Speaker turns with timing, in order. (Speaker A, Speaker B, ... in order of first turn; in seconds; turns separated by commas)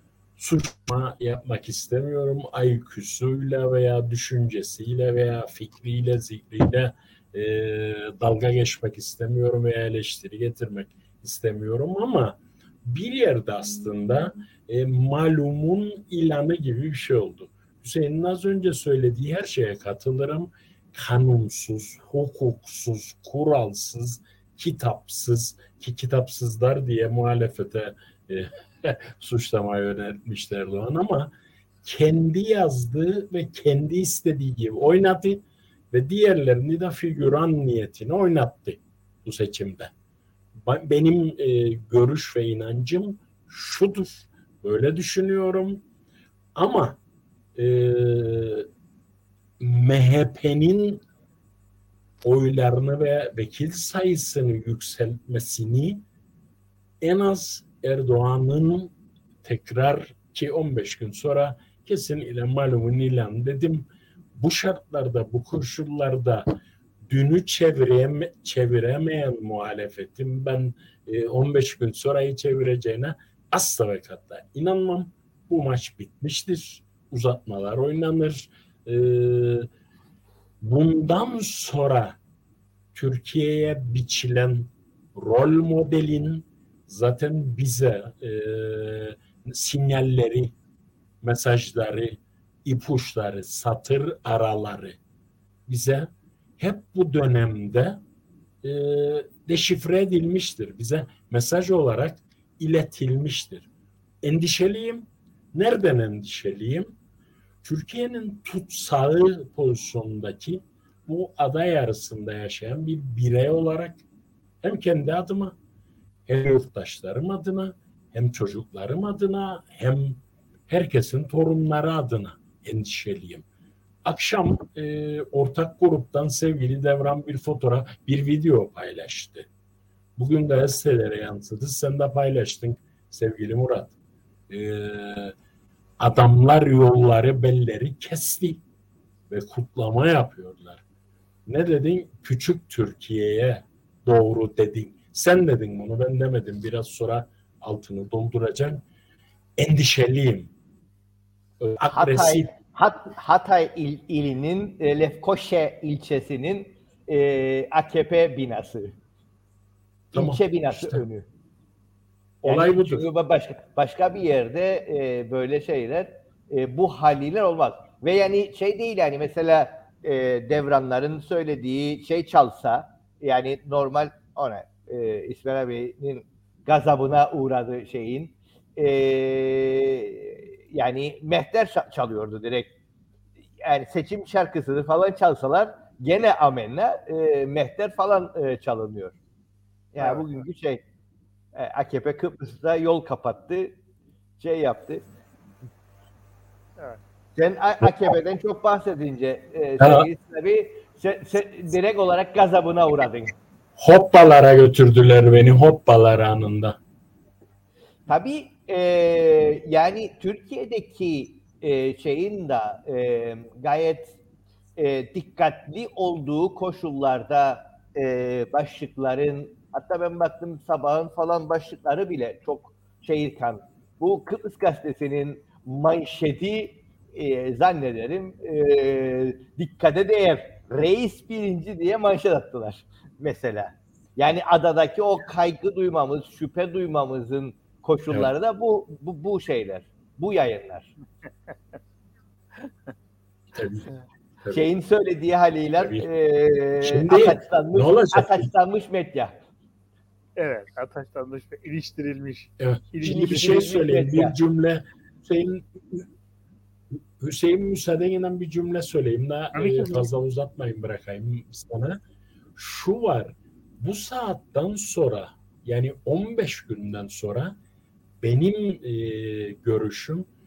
Speaker A: 0.4-31.3, Speaker A: 31.8-39.9, Speaker A: 40.6-45.8, Speaker A: 46.5-47.0, Speaker A: 47.5-48.6, Speaker A: 49.6-51.0, Speaker A: 52.2-56.0, Speaker A: 57.0-58.9, Speaker A: 59.4-66.5, Speaker A: 67.1-79.7, Speaker A: 80.6-82.2, Speaker A: 82.9-90.5, Speaker A: 91.2-95.0, Speaker A: 95.7-98.0, Speaker A: 98.6-103.7, Speaker A: 104.2-106.9, Speaker A: 107.6-114.0, Speaker A: 114.6-115.5, Speaker A: 116.3-123.4, Speaker A: 124.0-129.5, Speaker A: 130.2-133.9, Speaker A: 134.5-135.3, Speaker A: 136.0-138.6, Speaker A: 139.3-140.8, Speaker A: 141.4-148.8, Speaker A: 149.6-150.5, Speaker A: 151.6-152.5, Speaker B: 151.9-158.9, Speaker A: 160.1-161.0, Speaker B: 160.1-161.2, Speaker A: 162.4-163.1, Speaker B: 162.4-182.7, Speaker B: 183.6-189.2, Speaker B: 189.9-190.8, Speaker C: 190.0-190.4, Speaker B: 191.5-193.8, Speaker B: 194.4-195.0, Speaker B: 197.3-203.3, Speaker A: 197.8-198.1, Speaker A: 199.8-200.1, Speaker A: 203.8-206.8, Speaker B: 208.1-214.2, Speaker B: 214.8-240.9, Speaker A: 243.5-243.9, Speaker B: 244.5-249.3, Speaker A: 245.8-246.1, Speaker A: 246.8-248.5, Speaker C: 250.4-253.8, Speaker A: 252.6-256.1, Speaker B: 253.1-254.3, Speaker A: 257.2-262.0, Speaker C: 259.5-260.1, Speaker A: 262.6-267.6, Speaker A: 268.2-270.3